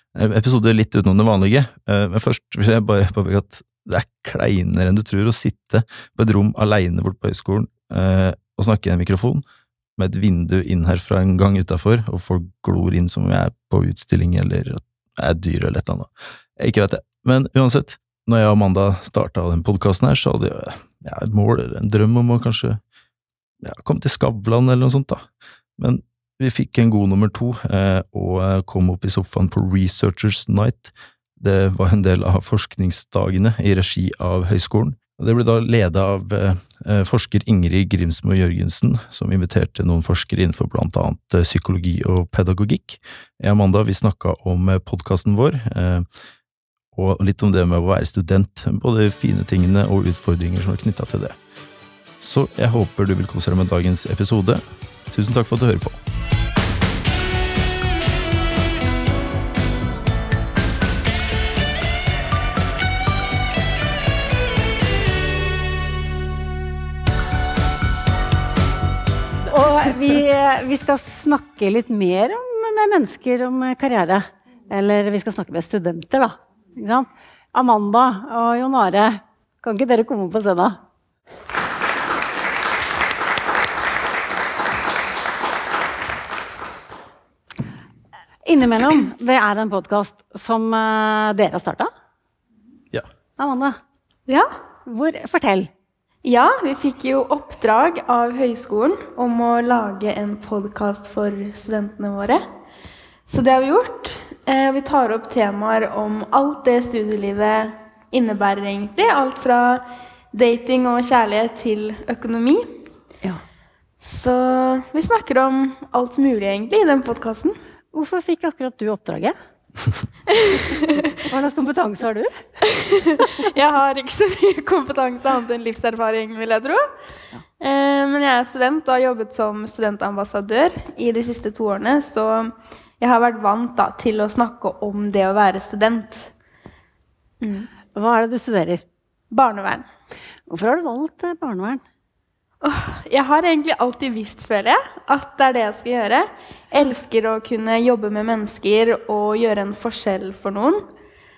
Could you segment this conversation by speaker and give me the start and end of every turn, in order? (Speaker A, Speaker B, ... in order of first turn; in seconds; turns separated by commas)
Speaker A: 0.1-9.4, Speaker A: 10.0-22.8, Speaker A: 23.6-25.2, Speaker A: 25.8-46.1, Speaker A: 46.9-51.4, Speaker A: 52.2-56.0, Speaker B: 69.5-80.8, Speaker B: 88.5-91.9, Speaker B: 93.4-93.8, Speaker B: 94.9-95.7, Speaker C: 96.2-102.4, Speaker C: 103.3-112.7, Speaker C: 114.0-117.6, Speaker B: 117.9-119.3, Speaker C: 120.3-121.1, Speaker B: 121.2-122.3, Speaker C: 122.7-126.8, Speaker C: 127.6-136.3, Speaker C: 137.4-137.7, Speaker B: 137.9-138.8, Speaker C: 139.3-139.9, Speaker B: 140.5-141.8, Speaker C: 142.6-150.9